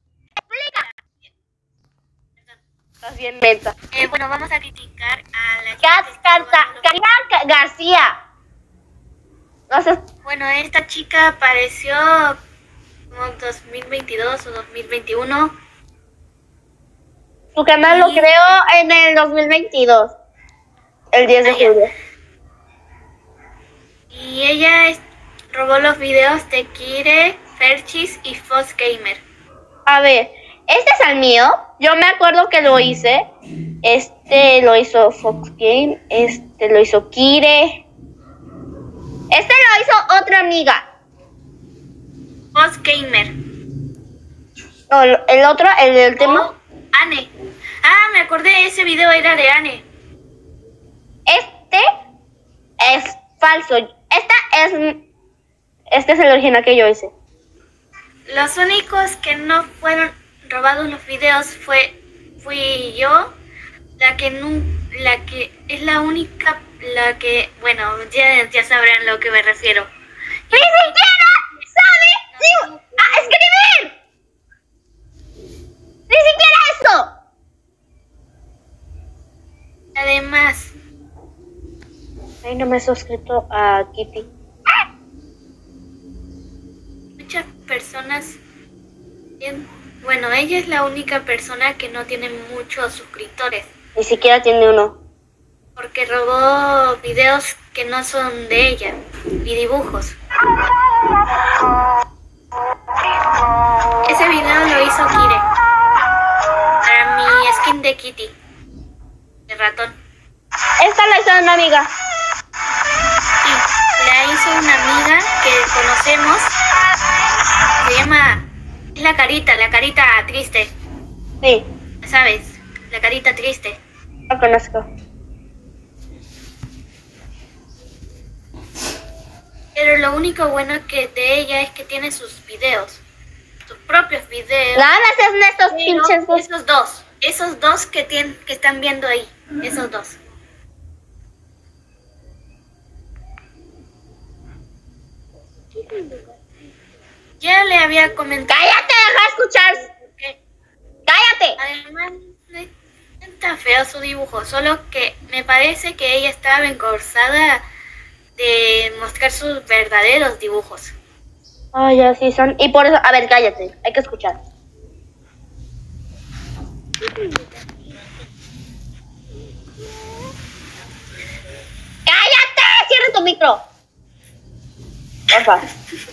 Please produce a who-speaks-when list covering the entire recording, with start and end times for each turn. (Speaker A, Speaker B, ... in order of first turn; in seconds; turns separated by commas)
Speaker A: 0.5-0.8, Speaker B: 0.8-1.3, Speaker A: 3.0-3.7, Speaker B: 3.9-7.0, Speaker A: 5.8-8.2, Speaker A: 9.7-10.0, Speaker B: 10.2-12.4, Speaker B: 13.1-15.5, Speaker A: 17.6-20.1, Speaker B: 17.8-18.5, Speaker A: 21.1-21.9, Speaker B: 21.4-21.8, Speaker B: 24.1-25.0, Speaker B: 25.5-29.2, Speaker A: 29.9-33.2, Speaker A: 33.8-37.9, Speaker A: 39.3-40.9, Speaker B: 42.5-43.3, Speaker A: 44.9-46.5, Speaker B: 46.1-47.3, Speaker B: 47.8-49.8, Speaker A: 51.3-51.8, Speaker A: 52.8-55.0, Speaker A: 55.9-57.1, Speaker B: 58.3-63.3, Speaker B: 64.0-69.9, Speaker B: 70.5-71.7, Speaker A: 70.5-73.9, Speaker B: 72.3-73.3, Speaker A: 76.1-77.1, Speaker B: 80.0-80.7, Speaker A: 82.4-84.3, Speaker B: 87.2-88.4, Speaker B: 89.4-93.7, Speaker A: 94.0-95.0, Speaker B: 95.8-100.2, Speaker B: 104.1-105.4, Speaker B: 106.8-108.3, Speaker B: 109.5-110.0, Speaker A: 110.8-111.9, Speaker B: 113.4-116.5, Speaker B: 117.8-120.7, Speaker B: 122.0-123.8, Speaker A: 124.3-124.8, Speaker B: 129.8-133.0, Speaker B: 133.7-134.9, Speaker A: 134.8-136.4, Speaker B: 135.7-140.2, Speaker B: 145.7-146.4, Speaker B: 147.4-149.1, Speaker A: 148.5-149.9, Speaker B: 149.9-150.4, Speaker A: 151.1-151.6, Speaker B: 151.6-152.7, Speaker B: 153.2-157.6, Speaker B: 158.4-160.9, Speaker A: 161.7-164.4, Speaker A: 172.1-173.6, Speaker A: 175.3-175.6